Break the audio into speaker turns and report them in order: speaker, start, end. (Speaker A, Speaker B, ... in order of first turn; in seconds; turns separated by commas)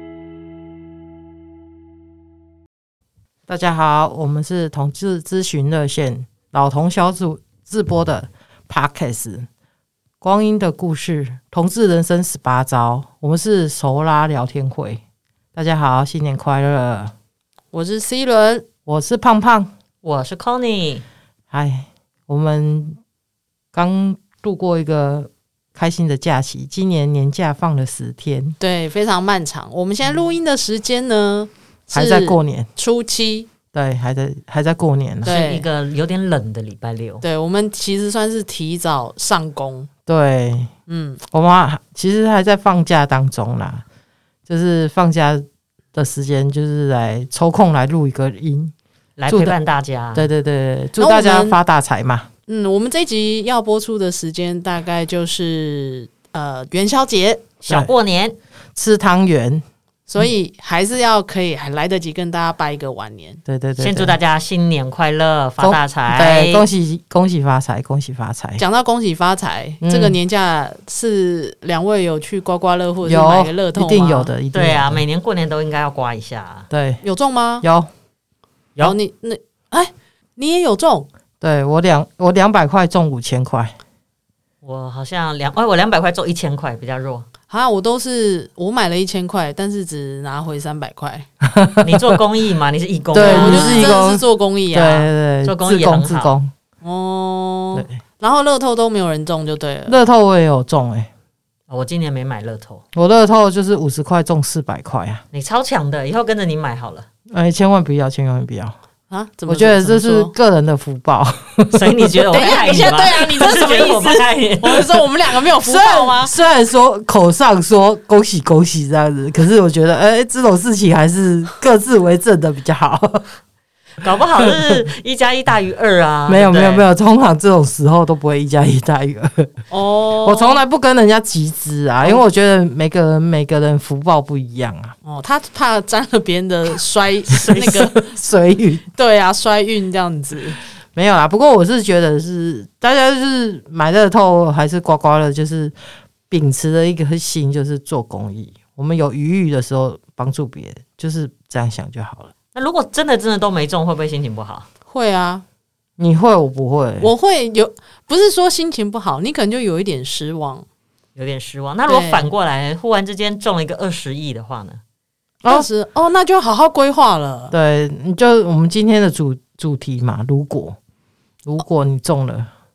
Speaker A: 3.5-9.5, Speaker A: 10.2-15.0, Speaker A: 15.5-17.1, Speaker B: 17.7-18.6, Speaker A: 18.9-19.7, Speaker C: 20.0-21.0, Speaker A: 21.5-23.0, Speaker A: 23.7-28.6, Speaker B: 28.6-33.5, Speaker A: 31.9-32.7, Speaker A: 33.7-35.3, Speaker C: 35.2-37.2, Speaker B: 35.2-35.6, Speaker B: 37.2-39.9, Speaker A: 40.1-40.7, Speaker B: 40.9-41.2, Speaker A: 41.3-43.8, Speaker A: 44.5-48.7, Speaker C: 49.2-50.3, Speaker A: 49.3-49.6, Speaker A: 50.1-52.3, Speaker B: 51.0-51.6, Speaker B: 52.5-57.5, Speaker C: 57.6-58.4, Speaker A: 58.7-59.6, Speaker B: 60.1-63.4, Speaker A: 63.5-64.1, Speaker C: 63.8-66.6, Speaker A: 65.6-68.6, Speaker B: 68.6-74.3, Speaker A: 69.8-70.2, Speaker A: 73.0-75.0, Speaker C: 74.5-76.7, Speaker A: 76.7-77.0, Speaker B: 77.0-77.6, Speaker A: 77.6-77.9, Speaker B: 78.8-81.1, Speaker A: 81.4-83.7, Speaker C: 84.6-87.3, Speaker B: 87.5-91.3, Speaker A: 91.4-92.2, Speaker C: 91.8-93.9, Speaker A: 93.1-96.5, Speaker B: 93.1-95.1, Speaker C: 95.4-96.3, Speaker B: 96.8-100.0, Speaker A: 99.9-101.1, Speaker C: 101.7-102.8, Speaker A: 102.9-105.2, Speaker C: 105.3-107.1, Speaker A: 107.3-108.8, Speaker B: 109.1-110.3, Speaker A: 109.5-112.3, Speaker C: 111.7-114.9, Speaker B: 112.3-116.3, Speaker A: 115.7-123.2, Speaker C: 124.0-126.8, Speaker A: 124.4-124.8, Speaker A: 126.3-129.5, Speaker B: 129.7-130.6, Speaker A: 130.2-134.9, Speaker B: 135.0-138.1, Speaker C: 137.4-137.7, Speaker A: 137.5-138.8, Speaker B: 138.9-140.6, Speaker A: 140.9-145.7, Speaker A: 146.3-152.3, Speaker C: 152.5-154.7, Speaker B: 154.9-155.4, Speaker A: 156.0-157.1, Speaker B: 157.0-160.6, Speaker C: 161.2-164.8, Speaker B: 161.9-162.3, Speaker B: 165.5-167.5, Speaker A: 167.5-170.8, Speaker A: 171.4-172.5